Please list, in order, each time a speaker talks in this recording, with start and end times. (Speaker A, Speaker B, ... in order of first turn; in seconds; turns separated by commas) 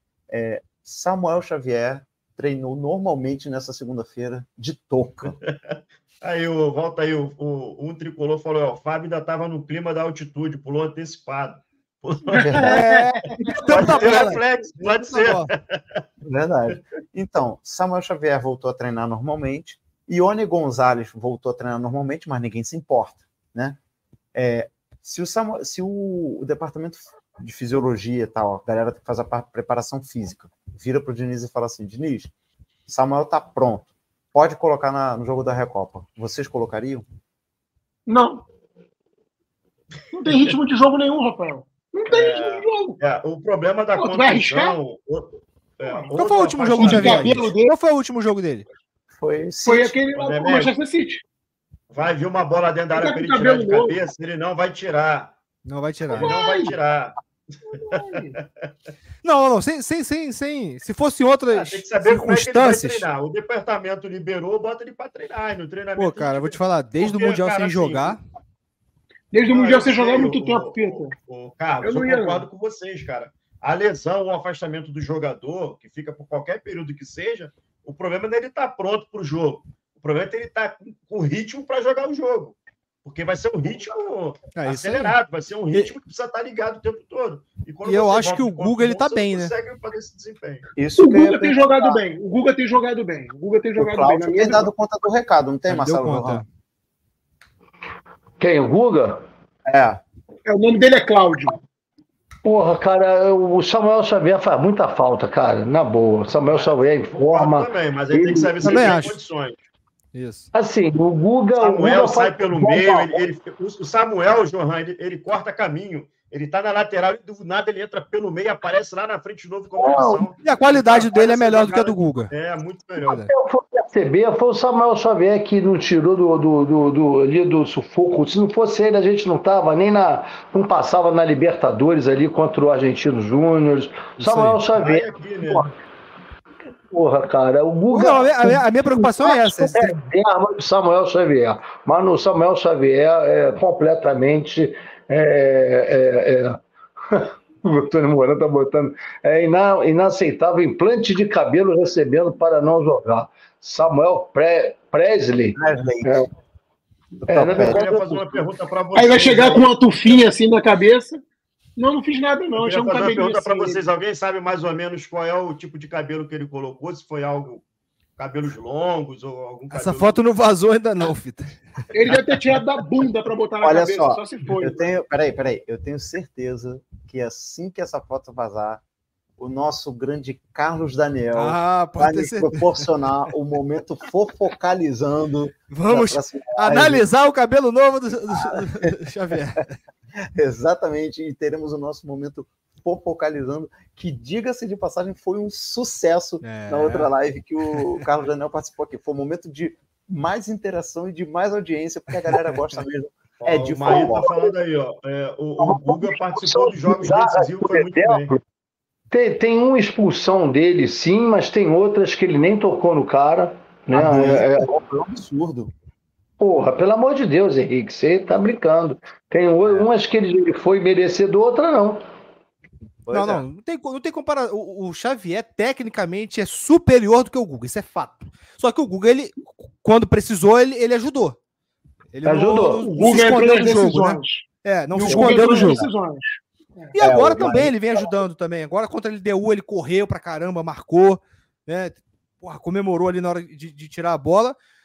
Speaker A: 0.3-5.3, Speaker B: 5.4-12.8, Speaker A: 12.3-12.8, Speaker C: 12.5-13.6, Speaker D: 12.6-15.5, Speaker B: 13.6-15.8, Speaker A: 13.7-14.4, Speaker A: 16.2-23.8, Speaker A: 24.3-32.3, Speaker A: 32.9-37.0, Speaker C: 38.1-38.5, Speaker C: 40.1-43.0, Speaker B: 42.1-47.5, Speaker C: 44.0-44.8, Speaker D: 46.1-48.6, Speaker C: 46.8-47.7, Speaker A: 49.1-50.0, Speaker C: 49.6-51.2, Speaker B: 50.1-50.7, Speaker B: 51.9-55.3, Speaker C: 52.9-54.0, Speaker D: 55.6-56.7, Speaker B: 56.1-57.1, Speaker C: 56.1-56.7, Speaker C: 57.7-58.4, Speaker B: 57.7-58.7, Speaker D: 59.2-63.0, Speaker B: 61.5-68.2, Speaker D: 66.0-68.2, Speaker C: 69.3-71.1, Speaker B: 69.5-90.7, Speaker C: 71.8-72.5, Speaker D: 84.5-85.2, Speaker D: 87.8-89.5, Speaker A: 90.8-92.0, Speaker C: 91.0-94.7, Speaker A: 93.8-96.4, Speaker D: 95.7-96.4, Speaker E: 98.4-99.2, Speaker A: 99.7-100.0, Speaker C: 100.5-101.6, Speaker E: 102.4-108.8, Speaker B: 106.5-109.6, Speaker D: 108.6-109.2, Speaker D: 110.1-110.5, Speaker E: 110.5-113.2, Speaker B: 111.6-123.2, Speaker E: 119.8-120.3, Speaker D: 120.4-122.3, Speaker D: 123.0-123.3, Speaker E: 123.0-135.7, Speaker D: 134.2-134.6, Speaker B: 134.8-135.7, Speaker E: 136.9-156.3, Speaker D: 137.9-139.9, Speaker A: 155.6-156.2, Speaker A: 157.2-157.8, Speaker E: 157.3-158.3, Speaker B: 157.5-160.2, Speaker C: 158.9-161.2, Speaker C: 161.8-163.8, Speaker B: 162.5-167.6, Speaker B: 168.2-170.2, Speaker D: 169.7-171.6, Speaker C: 171.9-174.8, Speaker A: 173.6-178.8, Speaker A: 179.4-187.0, Speaker D: 181.3-182.9, Speaker D: 185.7-189.8, Speaker A: 188.3-188.9, Speaker A: 190.2-204.4, Speaker D: 196.4-197.1, Speaker D: 197.7-198.0, Speaker D: 202.2-202.6, Speaker B: 203.4-208.3, Speaker E: 205.6-208.4, Speaker E: 209.1-214.7, Speaker A: 213.9-215.7, Speaker E: 216.4-222.0, Speaker A: 223.0-223.4, Speaker D: 223.1-231.4, Speaker D: 232.1-235.9, Speaker E: 232.2-232.9, Speaker C: 232.8-236.9, Speaker A: 235.1-235.9, Speaker D: 236.9-244.6, Speaker A: 237.0-238.0